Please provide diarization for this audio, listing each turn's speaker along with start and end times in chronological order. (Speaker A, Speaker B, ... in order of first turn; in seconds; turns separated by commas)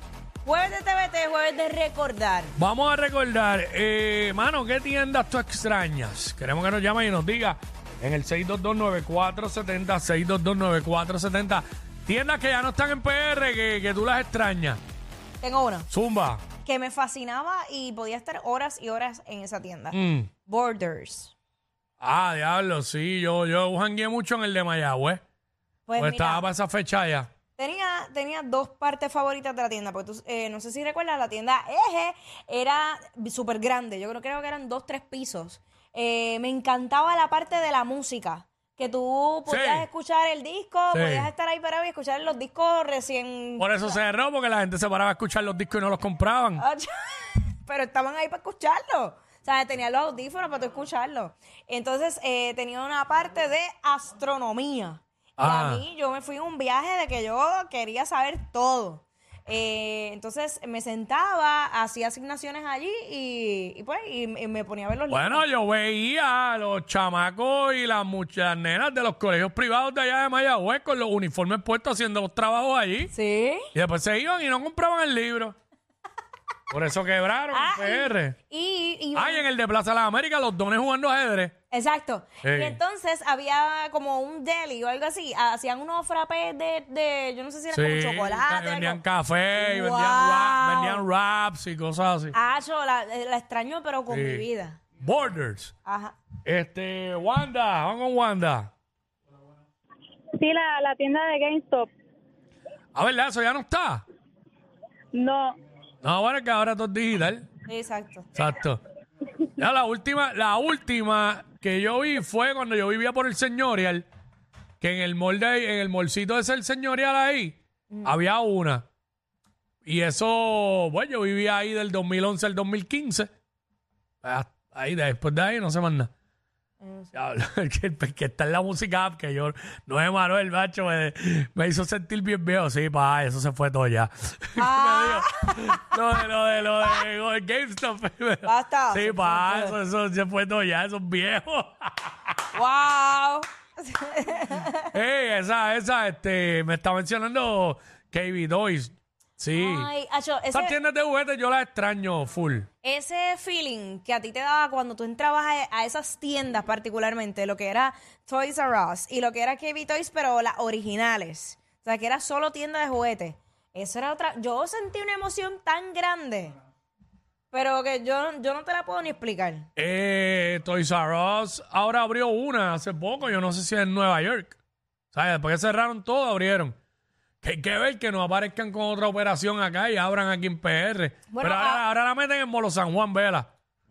Speaker A: 0.4-2.5, Speaker B: 2.6-14.8, Speaker A: 15.4-15.9, Speaker B: 15.9-16.4, Speaker A: 16.6-21.3, Speaker B: 19.9-20.3, Speaker B: 22.0-25.2, Speaker A: 25.9-26.4, Speaker B: 26.0-27.3, Speaker A: 27.6-44.0, Speaker B: 39.5-39.9, Speaker B: 40.9-41.3, Speaker B: 43.6-46.6, Speaker A: 46.6-65.4, Speaker B: 55.4-55.8, Speaker B: 65.1-73.1, Speaker A: 73.1-73.7, Speaker B: 73.7-75.5, Speaker B: 76.7-78.3, Speaker A: 77.5-79.4, Speaker B: 79.1-81.5, Speaker A: 81.7-89.0, Speaker B: 82.4-82.8, Speaker B: 87.7-92.3, Speaker A: 89.5-91.0, Speaker A: 92.3-94.8, Speaker B: 94.1-94.4, Speaker B: 95.0-95.7, Speaker A: 95.8-96.2, Speaker B: 96.4-98.7, Speaker C: 100.3-101.9, Speaker B: 102.9-104.0, Speaker C: 105.1-105.6, Speaker B: 106.0-107.5, Speaker A: 107.7-108.3, Speaker B: 108.3-108.8, Speaker B: 109.5-114.0, Speaker B: 114.8-118.8, Speaker B: 119.8-123.3, Speaker B: 124.2-126.1, Speaker A: 126.8-127.1, Speaker B: 127.1-142.3, Speaker A: 134.6-135.8, Speaker A: 138.4-139.7, Speaker A: 142.5-144.9, Speaker B: 144.9-149.9, Speaker A: 149.5-150.8, Speaker B: 150.5-152.7, Speaker A: 152.8-166.5, Speaker A: 167.5-169.7, Speaker B: 169.8-174.6, Speaker B: 175.1-176.7, Speaker B: 177.4-183.5, Speaker A: 181.3-181.8